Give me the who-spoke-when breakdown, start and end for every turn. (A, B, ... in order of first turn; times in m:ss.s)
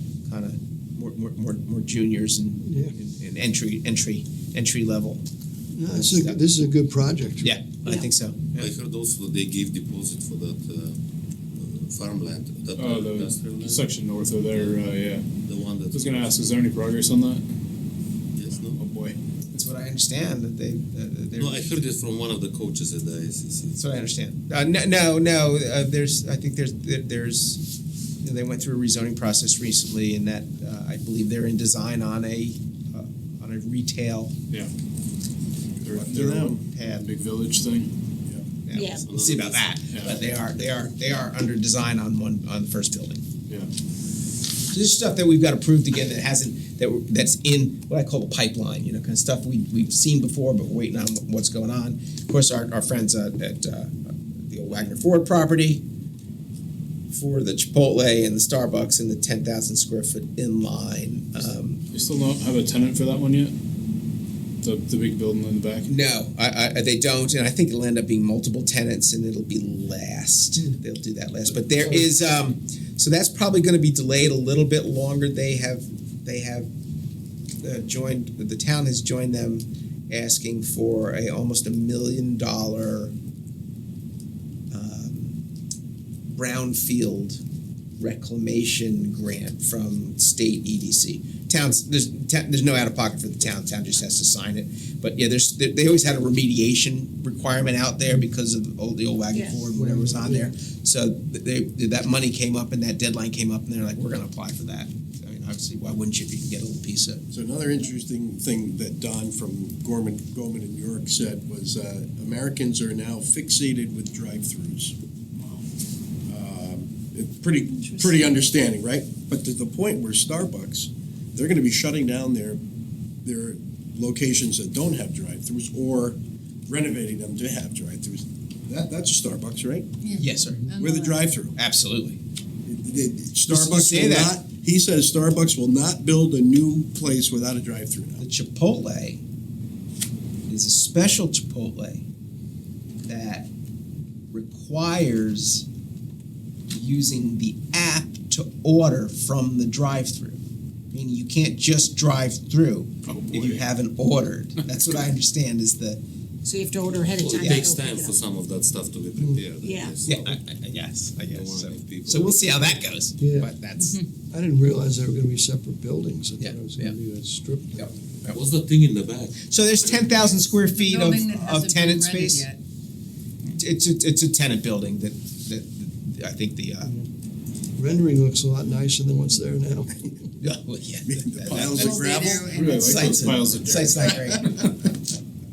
0:00.3-0:05.2 A
0:02.6-0:02.9 B
0:05.7-0:07.5 B
0:05.9-0:06.4 A
0:07.4-0:08.7 A
0:08.6-0:11.0 C
0:11.5-0:13.9 C
0:12.8-0:15.3 D
0:14.5-0:14.8 C
0:15.4-0:16.4 C
0:15.9-0:17.4 D
0:18.3-0:18.9 C
0:18.7-0:19.6 D
0:19.5-0:21.8 A
0:21.4-0:23.8 C
0:23.7-0:34.3 A
0:35.8-0:36.6 E
0:35.8-0:37.9 D
0:36.6-0:37.1 A
0:38.6-0:43.2 A
0:38.7-0:39.0 F
0:38.8-0:39.8 C
0:39.9-0:40.2 D
0:44.7-0:55.8 A
0:57.1-1:01.8 A
1:01.9-1:03.6 D
1:04.6-1:05.9 D
1:05.9-1:16.7 A
1:17.6-1:23.1 A
1:24.7-1:25.4 A
1:26.3-1:27.4 A
1:28.0-1:47.2 A
1:39.8-1:40.5 B
1:47.3-1:55.0 E
1:56.3-2:02.6 E
2:03.2-2:09.9 E
2:10.0-2:11.2 G
2:10.2-2:10.7 A
2:10.7-2:11.6 E
2:11.6-2:12.2 A
2:12.7-2:18.2 E
2:13.5-2:14.4 A
2:18.2-2:19.2 A
2:20.5-2:22.1 A
2:23.0-2:23.5 A
2:24.3-2:25.7 A
2:26.7-2:30.4 A
2:30.9-2:36.0 A
2:33.1-2:33.7 D
2:36.4-2:38.1 F
2:37.2-2:40.4 C
2:39.6-2:39.9 F
2:40.0-2:44.0 A
2:41.3-2:42.7 C
2:43.2-2:43.5 B
2:44.3-2:48.0 B
2:46.4-2:47.0 A
2:47.8-2:48.4 A
2:48.3-2:49.4 C
2:49.5-2:52.5 A
2:50.7-2:52.6 G
2:53.5-2:57.0 A
2:57.8-3:00.1 B
3:00.4-3:05.0 A
3:01.1-3:02.9 E
3:01.7-3:02.6 G
3:02.6-3:04.7 D